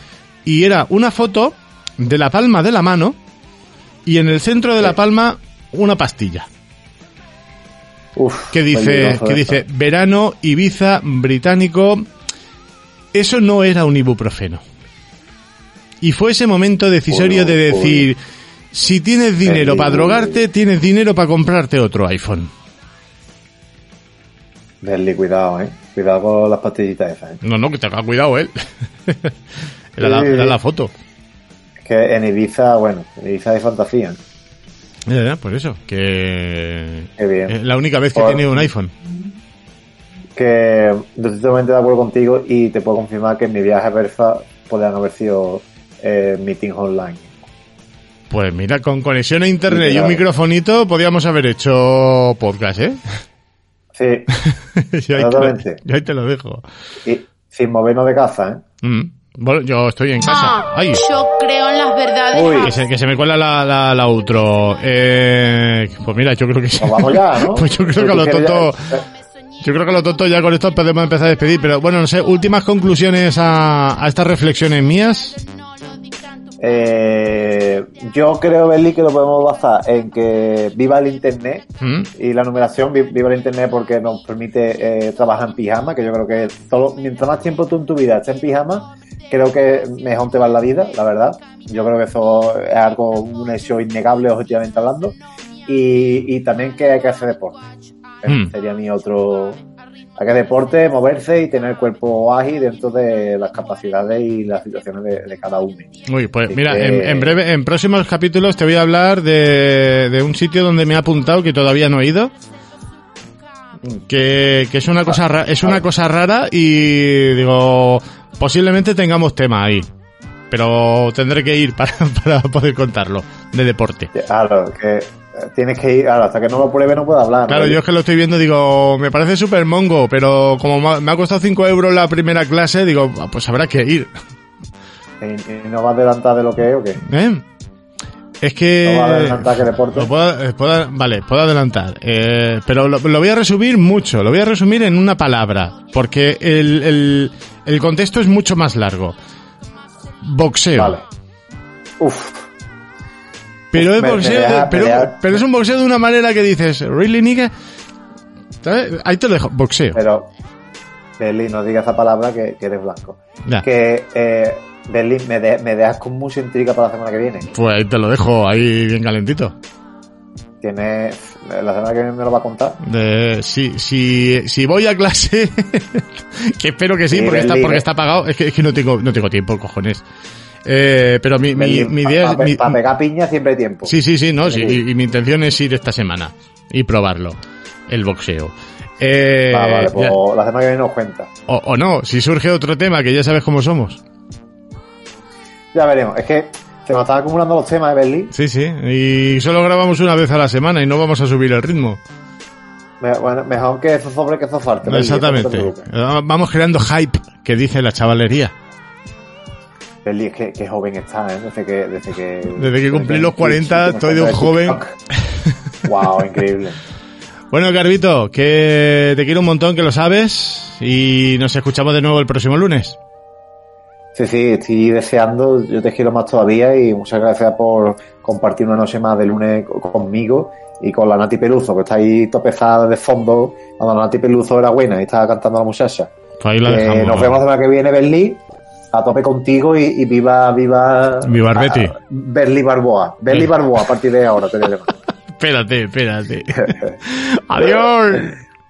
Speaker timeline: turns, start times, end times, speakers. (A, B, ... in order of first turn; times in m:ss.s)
0:00.4-0:03.2 A
0:04.0-0:06.5 A
0:08.2-0:09.6 B
0:08.5-0:12.0 A
0:13.1-0:14.6 A
0:16.0-0:18.2 A
0:17.1-0:18.1 B
0:18.7-0:22.5 A
0:19.4-0:20.4 B
0:24.8-0:27.4 B
0:27.4-0:29.3 A
0:30.0-0:30.9 A
0:30.0-0:30.6 B
0:31.8-0:34.2 B
0:35.1-0:38.9 A
0:37.2-0:37.5 B
0:38.1-0:38.7 B
0:40.4-0:47.3 B
0:48.3-0:53.0 A
0:49.7-0:50.2 B
0:53.9-0:54.3 B
0:54.5-0:56.6 A
0:55.1-0:55.8 B
0:57.0-0:58.6 B
0:58.8-1:01.0 A
1:00.3-1:02.8 C
1:02.3-1:02.7 B
1:02.6-1:08.8 A
1:06.8-1:09.0 B
1:09.6-1:15.4 A
1:16.6-1:35.1 B
1:21.8-1:22.1 A
1:35.6-1:37.6 B
1:38.2-1:39.6 B
1:38.2-1:38.5 A
1:40.2-1:45.9 B
1:46.1-1:52.3 A
1:46.5-1:47.3 B
1:53.8-1:59.9 A
1:55.1-1:55.8 B
2:00.5-2:04.1 A
2:04.1-2:07.8 B
2:07.5-2:14.1 A
2:15.2-2:17.0 B
2:17.0-2:17.4 A
2:18.4-2:29.1 A
2:18.8-2:20.1 B
2:30.2-2:31.0 A
2:30.8-2:31.0 B
2:32.0-2:32.5 B
2:33.7-2:37.5 A
2:33.7-2:35.4 B
2:38.6-2:40.0 A
2:39.9-2:40.3 B
2:41.2-2:47.5 B
2:47.5-2:49.5 A
2:50.6-2:52.8 B
2:52.8-3:00.0 A
2:57.1-2:57.8 B
3:00.6-3:02.8 A
3:01.5-3:03.9 B
3:03.9-3:07.4 A
3:04.4-3:04.8 B
3:07.9-3:10.2 A
3:09.5-3:11.3 B
3:11.5-3:14.0 A
3:15.7-3:18.3 B
3:18.3-3:22.0 A
3:23.0-3:25.9 B
3:24.8-3:28.5 A
3:30.0-3:34.9 B
3:32.6-3:35.5 A
3:35.8-3:36.8 B
3:37.5-3:43.0 A
3:44.1-3:56.1 B
3:56.4-3:57.4 A
3:56.6-3:58.4 B
3:58.9-4:04.9 B
4:01.2-4:01.9 A
4:05.4-4:08.3 A
4:06.6-4:06.9 B
4:07.6-4:08.3 B